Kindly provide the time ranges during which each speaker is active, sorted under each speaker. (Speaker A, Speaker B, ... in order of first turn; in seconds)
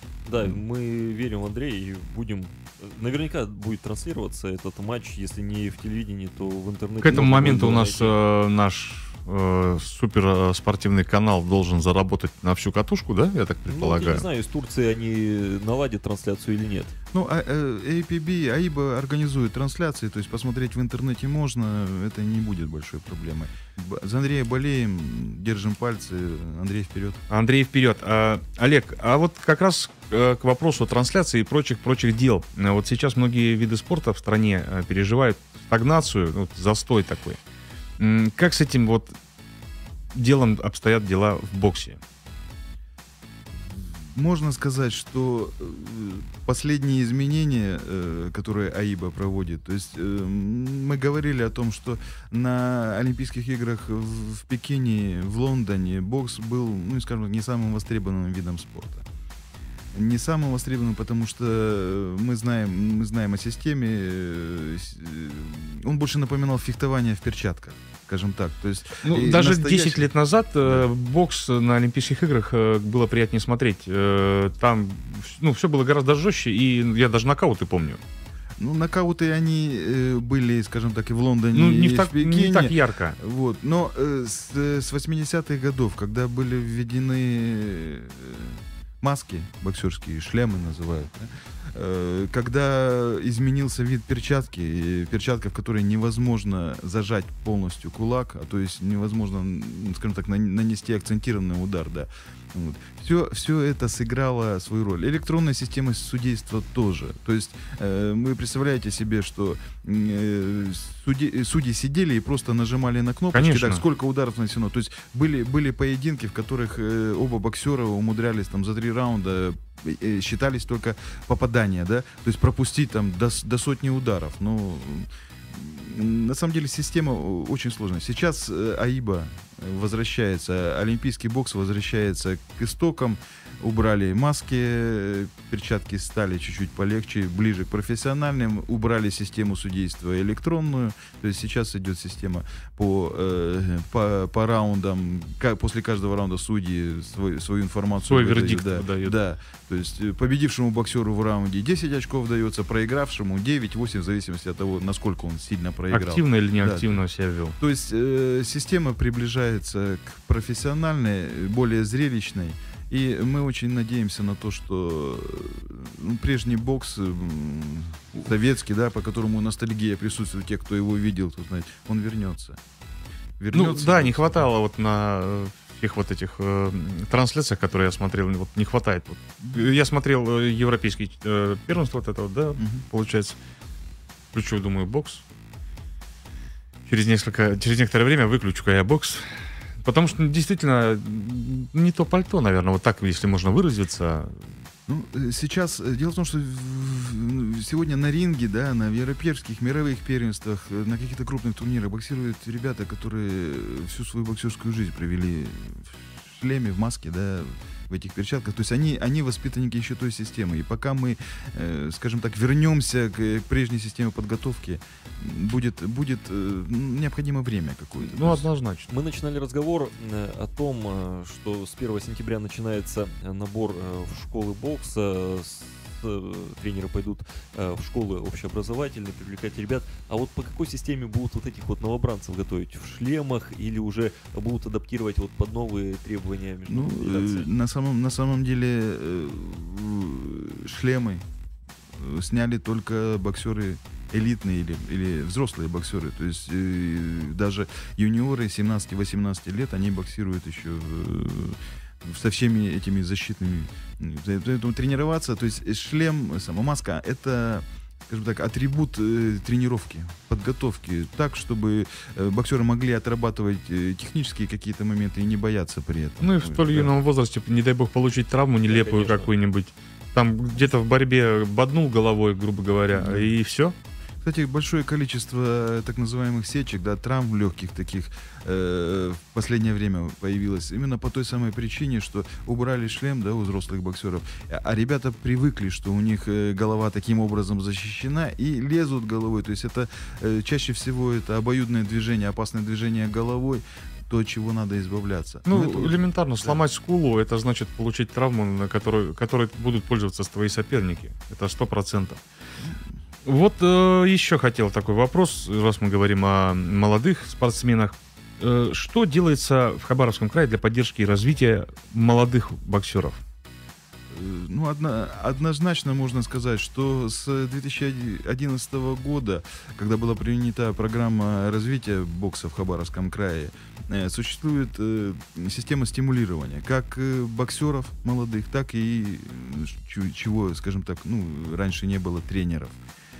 Speaker A: 0.3-8.1, 13.7-16.9, 218.9-237.5, 268.7-269.3
Speaker B: 7.0-14.2, 27.3-37.4, 38.0-39.1, 40.1-42.0, 69.0-78.0, 81.5-83.2, 113.3-113.8, 148.1-149.2, 155.9-157.6, 173.5-183.4, 184.3-185.2, 186.9-194.5, 218.0-218.9, 266.2-273.8, 295.5-302.2, 303.2-313.2
Speaker C: 17.1-27.2, 43.5-59.0, 59.9-70.1, 78.6-156.9, 157.6-172.6, 173.4-174.5, 182.6-182.8, 194.9-218.5, 236.7-241.2, 241.9-266.9, 272.9-273.3, 274.2-296.6, 314.1-332.8